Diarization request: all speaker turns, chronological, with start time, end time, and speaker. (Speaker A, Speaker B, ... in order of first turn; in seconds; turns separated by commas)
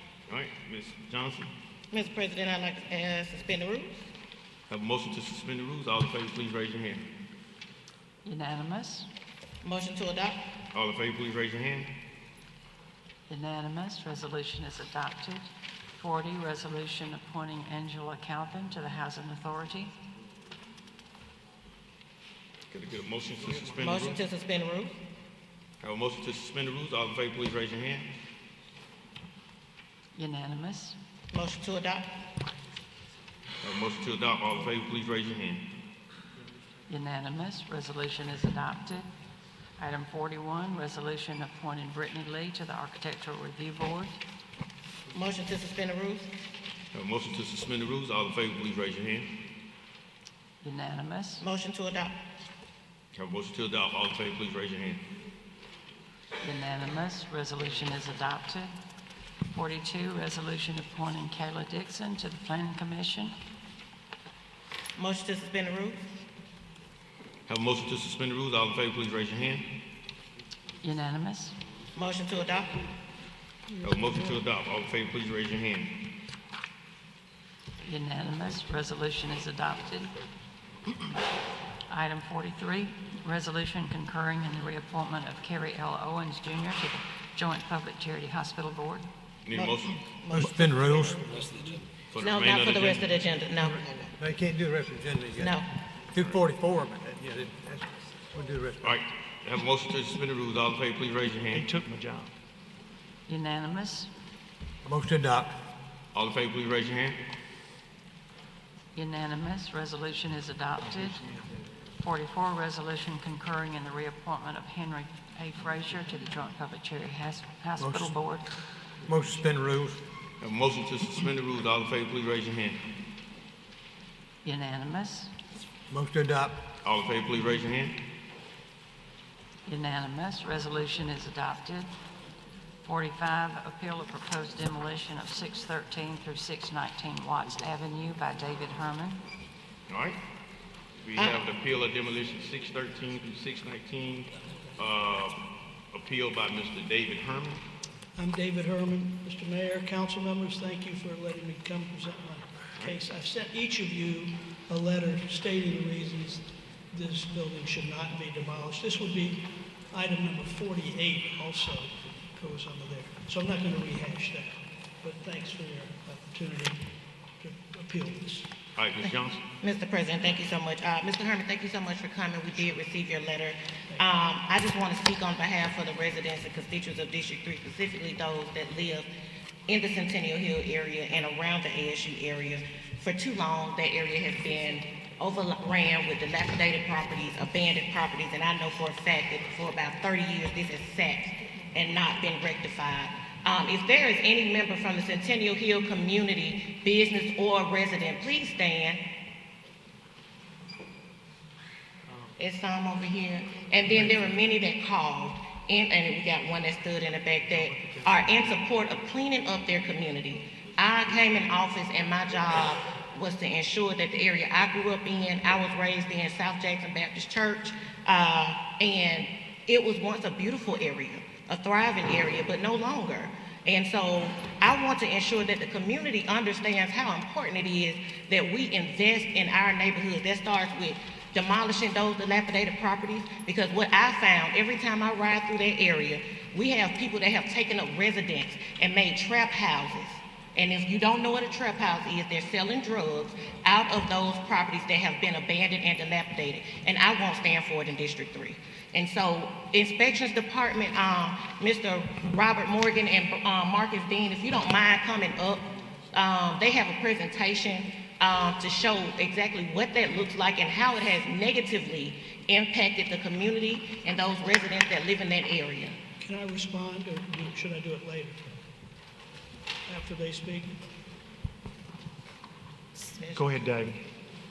Speaker A: 0.3-1.5, Speaker B: 1.9-4.1, Speaker A: 4.7-7.0, Speaker C: 8.2-9.1, Speaker B: 9.6-10.4, Speaker A: 10.7-11.9, Speaker C: 13.3-15.5, Speaker C: 16.0-19.9, Speaker A: 22.7-24.2, Speaker B: 23.8-25.0, Speaker A: 25.8-28.1, Speaker C: 30.1-31.0, Speaker B: 31.3-32.1, Speaker A: 33.6-35.7, Speaker C: 36.9-39.1, Speaker C: 39.8-44.1, Speaker B: 45.1-46.3, Speaker A: 46.9-49.3, Speaker C: 50.6-51.4, Speaker B: 51.4-52.1, Speaker A: 53.1-55.0, Speaker C: 56.4-58.7, Speaker C: 59.5-63.3, Speaker B: 65.0-66.0, Speaker A: 67.5-69.7, Speaker C: 70.8-71.6, Speaker B: 72.0-72.9, Speaker D: 73.7-74.3, Speaker A: 73.8-76.0, Speaker C: 77.8-80.1, Speaker C: 81.9-89.1, Speaker A: 89.5-90.0, Speaker B: 89.5-91.5, Speaker E: 90.3-91.3, Speaker A: 92.1-93.1, Speaker B: 92.2-94.1, Speaker E: 94.2-95.6, Speaker B: 95.4-95.7, Speaker E: 96.1-99.0, Speaker A: 98.8-101.8, Speaker F: 101.5-102.3, Speaker C: 103.3-104.1, Speaker E: 104.8-105.5, Speaker A: 106.1-107.2, Speaker C: 109.0-111.3, Speaker C: 112.0-118.5, Speaker E: 117.8-118.1, Speaker E: 119.1-120.0, Speaker A: 120.4-122.8, Speaker C: 124.4-125.3, Speaker E: 125.9-126.6, Speaker A: 126.8-128.0, Speaker C: 129.7-131.9, Speaker C: 132.8-139.2, Speaker A: 139.9-140.2, Speaker A: 141.0-147.6, Speaker B: 141.2-141.4, Speaker D: 148.2-166.8, Speaker D: 167.4-168.5, Speaker A: 168.8-169.4, Speaker B: 169.0-179.1, Speaker B: 179.7-199.0, Speaker B: 202.4-266.0, Speaker F: 203.9-204.2, Speaker F: 207.7-208.5, Speaker D: 266.2-268.4, Speaker D: 269.9-270.8, Speaker B: 273.0-273.8, Speaker F: 273.3-274.0